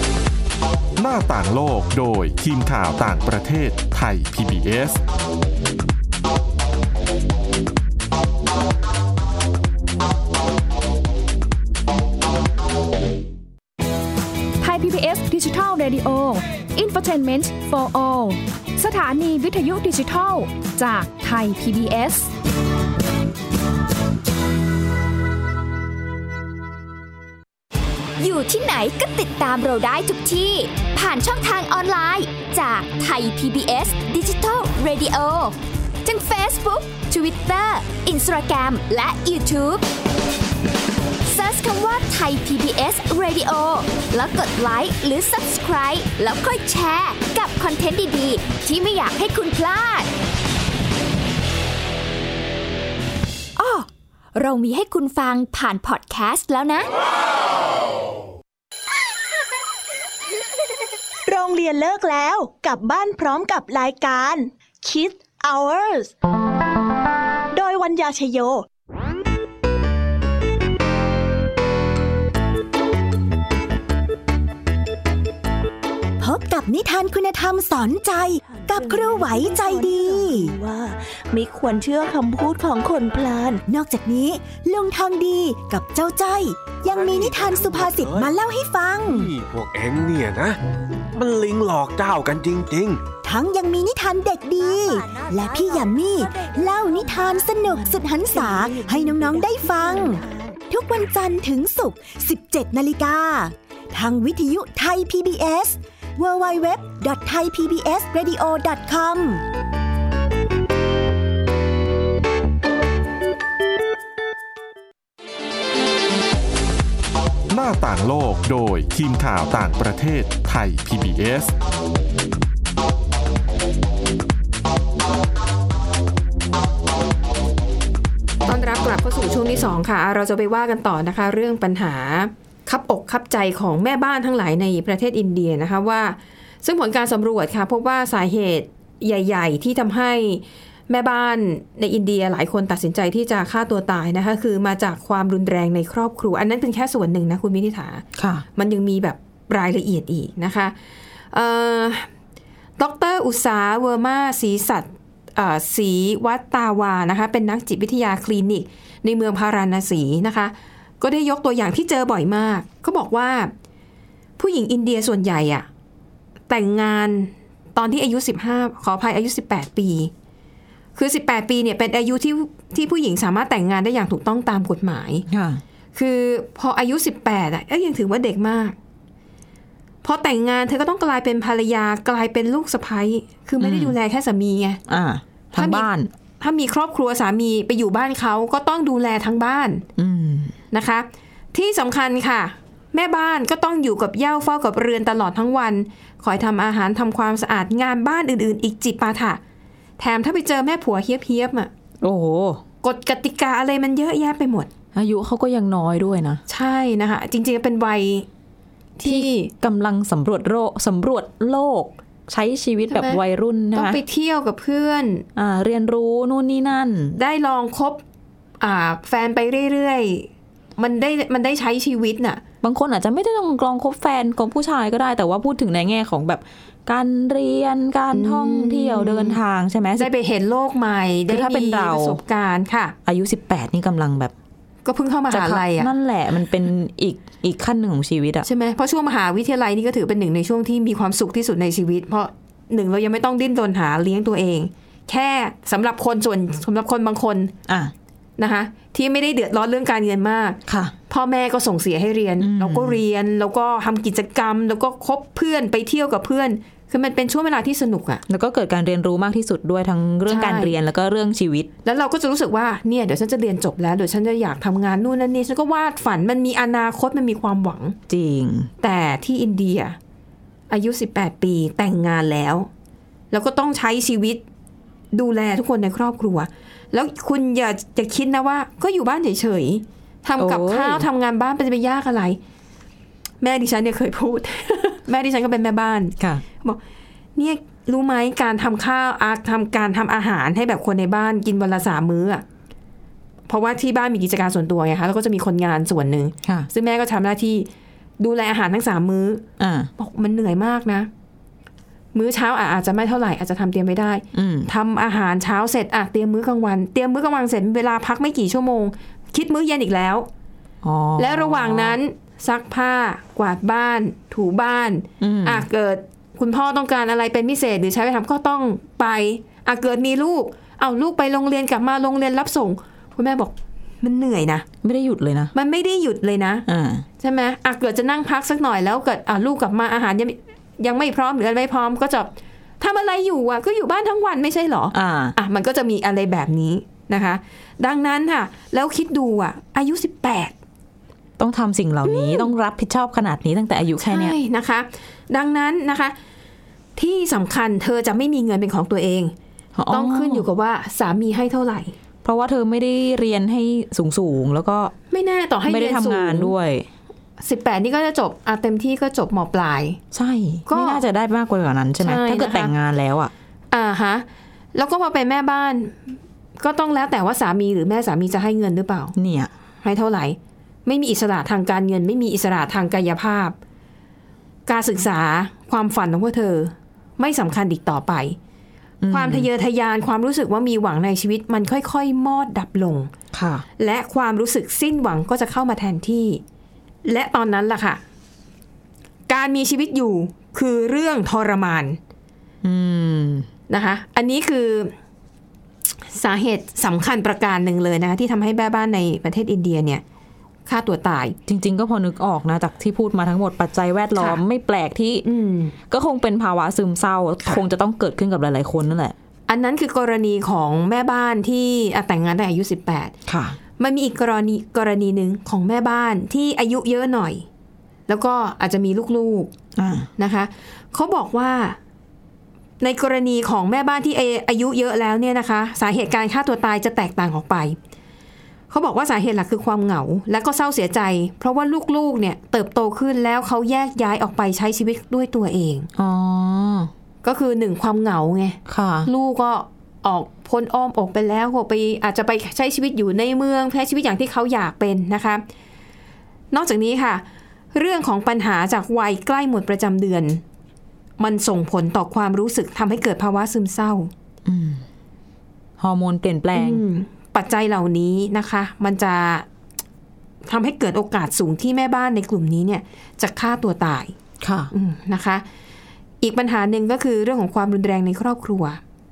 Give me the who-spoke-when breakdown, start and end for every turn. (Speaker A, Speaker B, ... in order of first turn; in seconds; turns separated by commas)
Speaker A: 1.0-5.0, Speaker B: 14.6-22.3, Speaker C: 28.2-39.8, Speaker C: 41.2-50.1, Speaker C: 53.6-56.9, Speaker D: 61.3-66.1, Speaker E: 62.5-63.1, Speaker D: 67.5-68.6, Speaker E: 76.2-80.6, Speaker D: 78.5-83.6, Speaker E: 83.7-89.3, Speaker F: 86.9-88.3, Speaker F: 89.0-90.6, Speaker F: 91.1-93.0, Speaker E: 93.2-109.4, Speaker D: 94.6-100.6, Speaker A: 117.5-121.5, Speaker G: 128.5-148.0, Speaker H: 148.2-148.4, Speaker G: 148.6-150.8, Speaker G: 151.3-152.1, Speaker G: 152.8-163.5, Speaker G: 164.4-165.7, Speaker G: 166.5-170.1, Speaker G: 171.0-175.2, Speaker H: 175.3-175.6, Speaker G: 175.9-178.8, Speaker G: 180.0-184.8, Speaker H: 183.6-184.0, Speaker H: 184.9-186.1, Speaker G: 185.6-185.9, Speaker G: 186.4-189.8, Speaker H: 190.0-190.6, Speaker G: 190.7-199.4, Speaker G: 200.0-201.7, Speaker H: 202.0-202.6, Speaker G: 202.8-204.7, Speaker H: 204.9-206.4, Speaker G: 206.5-208.2, Speaker G: 209.0-209.5, Speaker H: 209.0-214.0, Speaker G: 212.9-213.2, Speaker G: 213.7-215.2, Speaker H: 215.4-217.2, Speaker G: 217.2-218.0, Speaker G: 218.6-222.4, Speaker H: 222.6-230.1, Speaker G: 228.1-229.4, Speaker G: 230.0-232.9, Speaker H: 231.3-232.2, Speaker H: 233.1-234.3, Speaker G: 234.8-235.9, Speaker H: 235.3-238.5, Speaker G: 238.4-247.5, Speaker G: 248.4-250.6, Speaker H: 250.7-250.9, Speaker G: 251.1-258.2, Speaker H: 252.4-253.0, Speaker H: 258.3-261.7, Speaker G: 260.2-260.8, Speaker G: 261.9-268.0, Speaker H: 268.1-268.7, Speaker G: 268.8-270.0, Speaker G: 270.7-272.7, Speaker G: 273.3-274.4, Speaker G: 275.1-282.4, Speaker H: 280.4-281.1, Speaker G: 283.4-286.8, Speaker G: 287.4-292.4, Speaker G: 293.5-297.7, Speaker G: 298.2-299.4, Speaker H: 299.6-299.9, Speaker G: 300.0-301.1, Speaker G: 302.1-310.3, Speaker H: 304.3-304.7, Speaker H: 310.8-312.0, Speaker G: 311.2-324.6, Speaker H: 315.2-315.6, Speaker H: 324.8-325.5, Speaker G: 325.5-326.6, Speaker H: 326.7-327.1, Speaker G: 327.2-340.5, Speaker H: 334.9-335.4, Speaker H: 341.4-344.4, Speaker G: 342.1-342.5, Speaker G: 344.0-346.1, Speaker G: 347.0-349.3, Speaker H: 349.8-350.5, Speaker G: 349.9-351.9, Speaker H: 352.2-354.9, Speaker G: 355.1-356.6, Speaker H: 355.6-356.9, Speaker G: 357.4-360.0, Speaker H: 360.1-363.3, Speaker G: 360.7-361.0, Speaker G: 362.0-362.7, Speaker G: 363.7-369.1, Speaker H: 369.1-369.5, Speaker G: 369.8-373.6, Speaker G: 374.7-378.4, Speaker H: 379.0-379.5, Speaker G: 379.1-383.1, Speaker H: 383.3-383.6, Speaker G: 383.8-386.4, Speaker G: 387.1-388.0, Speaker G: 389.3-392.0, Speaker H: 392.6-393.5, Speaker G: 393.7-394.9, Speaker G: 396.0-400.0, Speaker G: 400.7-401.4, Speaker H: 401.5-405.3, Speaker G: 405.2-405.8, Speaker H: 405.9-409.1, Speaker G: 409.5-413.1, Speaker H: 413.3-413.6, Speaker G: 413.8-417.5, Speaker G: 418.1-419.5, Speaker H: 419.8-420.1, Speaker G: 420.2-421.8, Speaker G: 422.8-427.8, Speaker G: 428.7-435.9, Speaker H: 435.9-436.9, Speaker G: 437.2-445.4, Speaker H: 438.7-439.1, Speaker G: 446.5-450.4, Speaker G: 451.2-454.1, Speaker H: 454.4-454.8, Speaker H: 455.8-456.8, Speaker G: 456.5-459.5, Speaker G: 460.4-464.1, Speaker H: 464.4-464.7, Speaker G: 464.7-465.4, Speaker G: 466.2-468.8